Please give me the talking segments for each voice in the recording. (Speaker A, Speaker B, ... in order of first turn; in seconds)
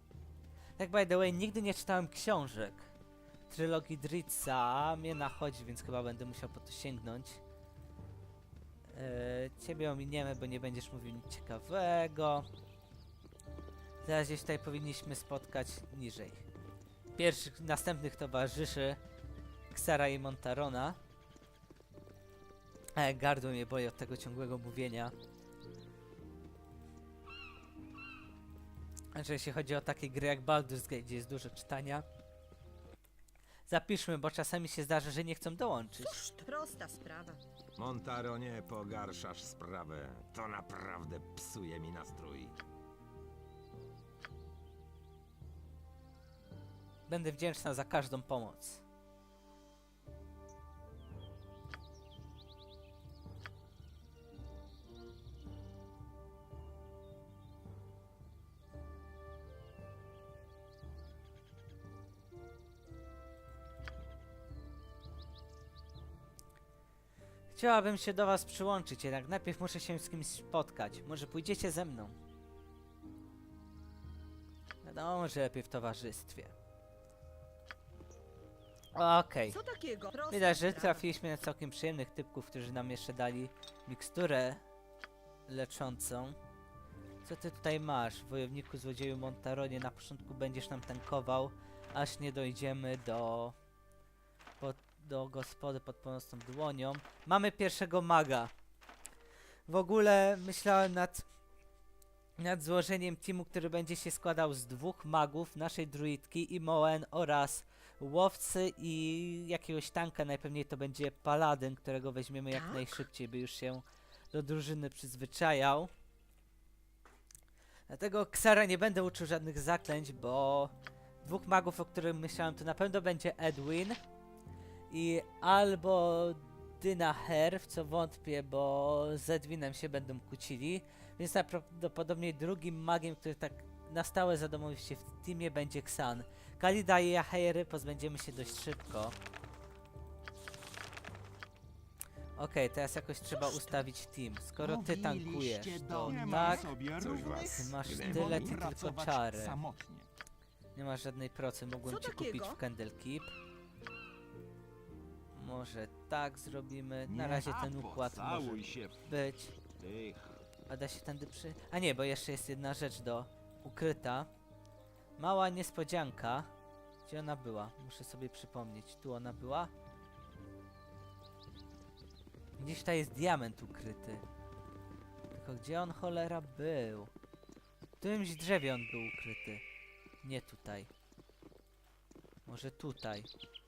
Speaker A: 0.8-2.9, 3.5-7.4, 8.9-12.5, 14.0-16.4, 17.2-19.0, 19.7-21.0, 23.0-25.1, 29.1-32.0, 33.7-36.2, 47.1-48.8, 67.5-72.2, 74.8-76.5, 79.0-79.6, 80.3-84.6, 85.5-86.4, 87.2-93.6, 94.6-98.5, 99.7-101.3, 102.4-115.9, 117.9-124.0, 124.9-139.2, 142.4-146.7, 147.5-149.6, 150.8-153.3, 155.3-159.6, 160.7-164.3, 165.2-166.5, 167.1-169.7, 172.6-174.2, 175.3-177.1, 178.0-179.6, 180.2-180.9, 182.5-183.3
Speaker B: 36.1-37.4, 79.5-81.1, 112.6-112.9, 143.3-143.8, 146.1-146.3, 151.8-152.6
Speaker C: 37.8-42.5, 144.6-150.1, 157.1-158.9
Speaker D: 38.2-42.4, 146.1-149.4, 159.8-160.3